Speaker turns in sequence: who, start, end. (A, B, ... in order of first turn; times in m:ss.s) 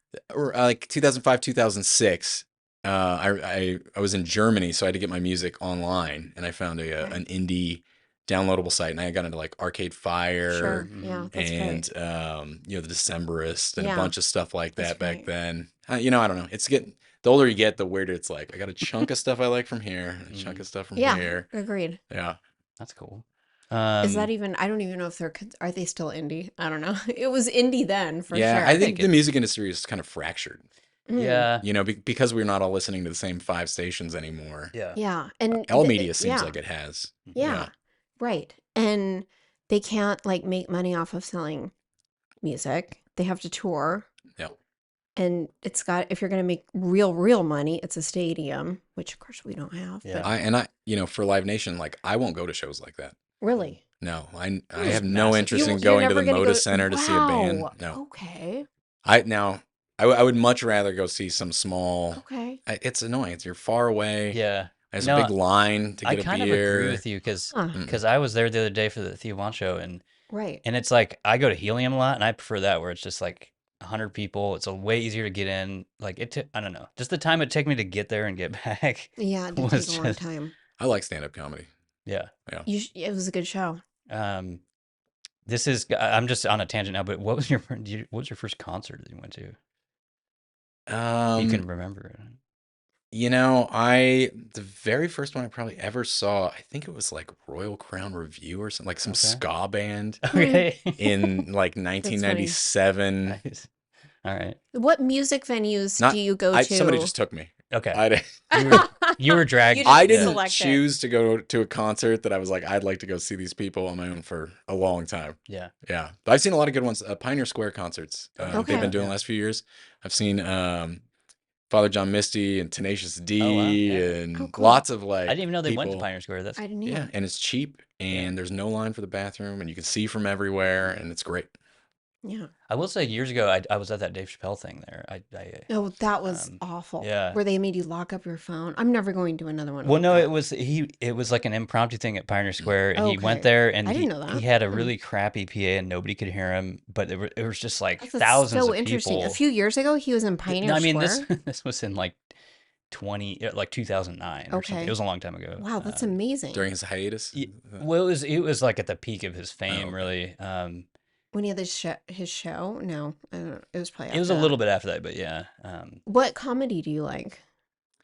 0:00.3-0:21.5 A
0:10.5-0:11.9 B
0:10.6-0:11.3 C
0:13.8-0:14.1 B
0:14.8-0:15.3 B
0:20.3-0:20.6 C
0:20.9-0:22.0 B
0:22.1-0:22.4 A
0:22.8-0:24.3 C
0:24.0-0:29.0 B
0:28.3-0:30.7 A
0:28.8-0:29.2 C
0:31.1-0:31.5 B
0:31.2-0:31.6 C
0:31.6-0:34.7 A
0:34.7-0:35.0 C
0:34.9-0:36.6 B
0:35.5-0:37.7 A
0:37.3-0:41.7 B
0:42.4-0:44.1 B
0:45.2-0:50.3 B
0:50.0-0:50.3 C
0:50.2-0:53.1 A
0:53.4-0:53.8 B
0:54.0-0:58.0 A
0:54.8-0:58.6 B
0:54.8-0:55.9 C
0:59.0-1:04.4 A
1:02.1-1:02.6 B
1:04.3-1:05.3 C
1:04.9-1:07.0 A
1:06.0-1:10.0 C
1:07.7-1:08.0 A
1:10.3-1:10.6 B
1:10.6-1:20.2 C
1:19.2-1:20.5 B
1:20.8-1:21.7 A
1:22.0-1:22.3 C
1:22.6-1:23.8 B
1:24.1-1:24.6 C
1:25.5-1:29.6 C
1:30.9-1:31.6 A
1:31.4-1:32.4 C
1:33.1-1:40.3 A
1:39.0-1:39.4 C
1:40.2-1:41.2 C
1:40.3-1:40.6 B
1:41.0-1:43.4 A
1:42.0-1:42.6 B
1:43.3-1:43.7 C
1:44.2-1:44.6 C
1:44.7-1:47.1 B
1:46.0-1:48.9 A
1:47.7-1:48.0 C
1:48.5-1:50.4 C
1:48.5-1:50.8 B
1:49.8-2:01.0 A
1:58.4-1:59.2 C
1:58.5-1:58.9 B
2:01.7-2:06.0 A
2:03.4-2:04.2 C
2:04.3-2:04.8 B
2:05.2-2:06.6 C
2:06.6-2:07.1 B
2:06.8-2:11.5 A
2:12.2-2:12.5 B
2:12.7-2:15.7 C
2:15.7-2:20.3 B
2:16.2-2:17.4 C
2:19.8-2:29.4 C
2:22.9-2:24.9 B
2:28.0-2:31.2 B
2:30.5-2:32.2 C
2:32.9-2:36.2 C
2:34.5-2:35.0 B
2:35.6-2:36.7 B
2:36.5-2:37.8 A
2:37.3-2:40.9 C
2:39.7-2:40.1 A
2:41.3-2:44.5 B
2:44.1-2:46.0 C
2:46.0-2:47.4 B